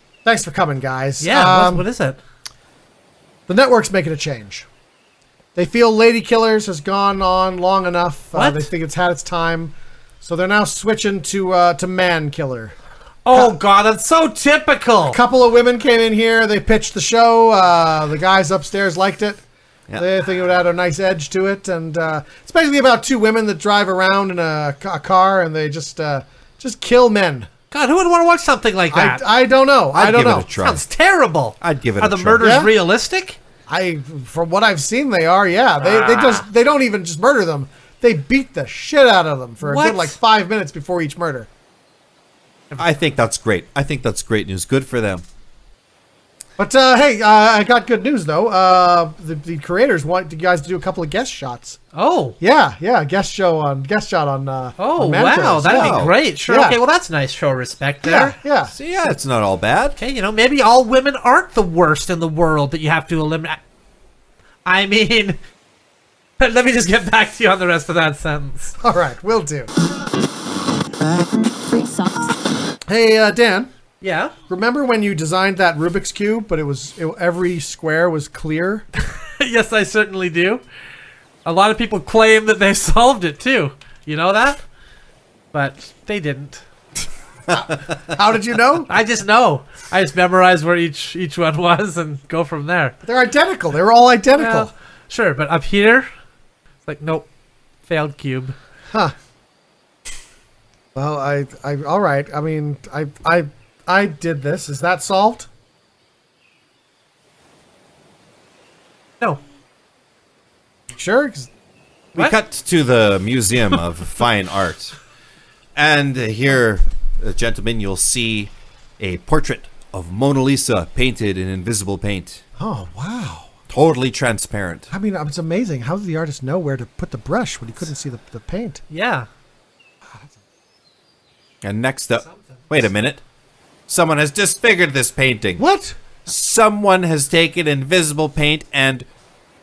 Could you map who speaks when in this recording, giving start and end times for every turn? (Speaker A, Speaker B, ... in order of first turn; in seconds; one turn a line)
Speaker A: 0.2-1.9
Speaker B: 1.2-2.2
Speaker A: 3.5-4.7
Speaker A: 5.6-12.7
Speaker B: 8.3-8.7
Speaker B: 13.3-15.2
Speaker A: 15.1-19.4
Speaker A: 20.0-27.5
Speaker B: 27.7-29.2
Speaker A: 28.9-30.5
Speaker C: 29.9-30.8
Speaker B: 30.6-33.4
Speaker C: 31.6-32.5
Speaker A: 32.4-32.7
Speaker A: 33.7-41.5
Speaker B: 39.6-40.1
Speaker C: 42.8-45.2
Speaker A: 46.6-51.8
Speaker B: 51.9-52.4
Speaker A: 52.4-56.8
Speaker B: 54.8-58.4
Speaker C: 55.6-56.1
Speaker A: 58.0-58.7
Speaker C: 58.7-60.0
Speaker B: 60.0-63.6
Speaker B: 64.7-65.4
Speaker B: 66.4-68.8
Speaker A: 68.8-69.7
Speaker A: 72.9-73.7
Speaker B: 74.0-74.3
Speaker A: 74.5-78.8
Speaker B: 79.0-80.6
Speaker B: 81.4-84.6
Speaker B: 85.5-86.6
Speaker A: 87.5-88.9
Speaker B: 88.9-92.9
Speaker A: 93.0-94.7
Speaker B: 94.4-96.1
Speaker B: 96.9-97.3
Speaker B: 97.9-98.6
Speaker A: 100.9-105.5
Speaker A: 110.9-111.5
Speaker C: 112.1-115.0
Speaker C: 115.8-122.4
Speaker A: 122.6-123.5
Speaker C: 123.7-124.9
Speaker A: 124.9-128.8
Speaker B: 128.9-129.3
Speaker C: 131.6-133.2
Speaker C: 133.9-135.6
Speaker A: 135.6-136.0
Speaker C: 136.3-139.1